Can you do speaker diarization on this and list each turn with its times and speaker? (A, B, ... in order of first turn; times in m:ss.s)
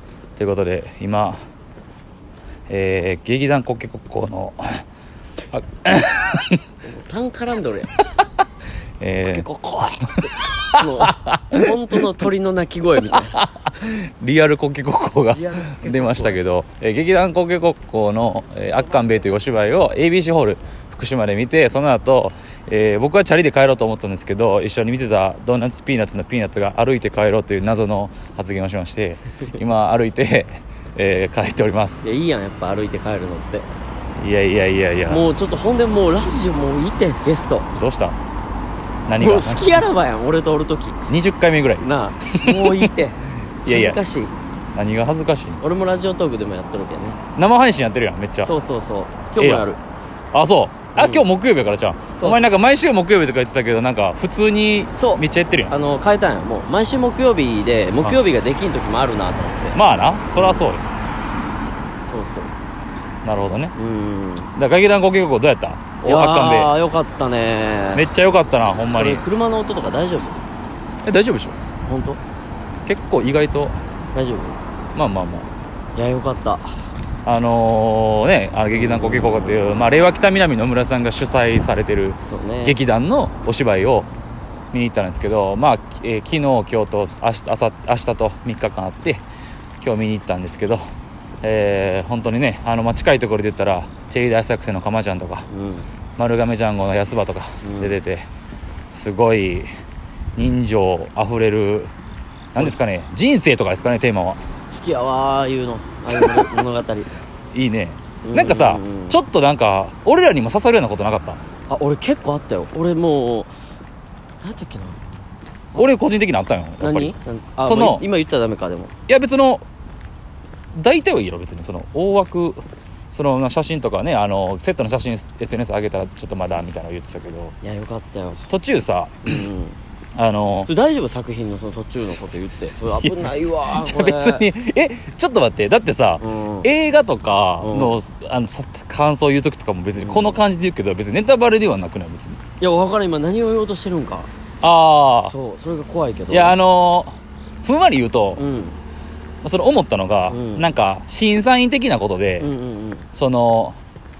0:00.4-0:01.4 A
0:02.7-0:04.8 A
0:05.5-0:06.6 A
0:06.8-0:07.9 B
0:09.0-0:09.4 A
0:09.3-0:13.3 B
0:10.4-0:11.7 A
0:13.1-0:32.0 A
0:15.3-0:16.4 B
0:32.0-0:33.7 B
0:34.2-0:35.2 A
0:35.1-0:37.7 B
0:37.7-0:38.2 A
0:39.1-0:39.8 A
0:39.2-0:41.0 B
0:41.1-0:42.9 A
0:41.8-0:44.3 B
0:43.6-0:44.0 A
0:44.7-0:45.6 A
0:45.6-0:47.2 B
0:47.4-0:48.5 A
0:48.4-0:49.8 B
0:49.4-0:49.7 A
0:50.3-0:55.7 A
0:51.0-0:51.2 B
0:54.9-0:59.8 B
0:59.7-1:00.8 A
1:00.4-1:00.7 B
1:02.1-1:02.5 B
1:03.2-1:03.7 A
1:03.7-1:04.5 B
1:04.6-1:06.7 A
1:06.0-1:08.0 B
1:07.9-1:09.2 A
1:08.9-1:10.4 B
1:11.0-1:11.6 A
1:11.8-1:12.2 B
1:12.8-1:13.8 A
1:14.1-1:14.6 B
1:14.9-1:15.5 A
1:15.9-1:16.8 B
1:17.2-1:24.1 A
1:19.0-1:19.4 B
1:22.3-1:22.8 B
1:24.7-1:29.2 A
1:29.8-1:30.8 A
1:31.4-1:35.4 A
1:35.5-1:35.9 B
1:36.2-1:38.3 A
1:37.6-1:37.9 B
1:38.9-1:39.7 A
1:40.4-1:41.9 A
1:42.5-1:44.4 A
1:42.6-1:42.8 B
1:44.7-1:47.1 B
1:46.1-1:46.4 A
1:47.5-1:51.4 A
1:48.2-1:49.2 B
1:51.7-1:53.5 B
1:54.4-1:55.0 B
1:55.8-1:57.1 A
1:56.8-1:58.9 B
1:57.6-1:58.0 A
1:59.1-1:59.6 A
2:00.7-2:07.5 A
2:07.6-2:08.5 B
2:08.5-2:09.4 A
2:09.2-2:09.8 B
2:10.2-2:10.7 A
2:10.6-2:14.5 B
2:13.0-2:22.4 A
2:16.2-2:16.7 B
2:17.6-2:18.0 B
2:20.0-2:20.4 B
2:22.6-2:24.3 B
2:24.6-2:25.3 A
2:25.3-2:26.6 B
2:26.3-2:28.4 A
2:28.4-2:28.8 B
2:29.4-2:32.5 A
2:30.3-2:30.7 B
2:32.4-2:33.1 B
2:33.1-2:33.8 A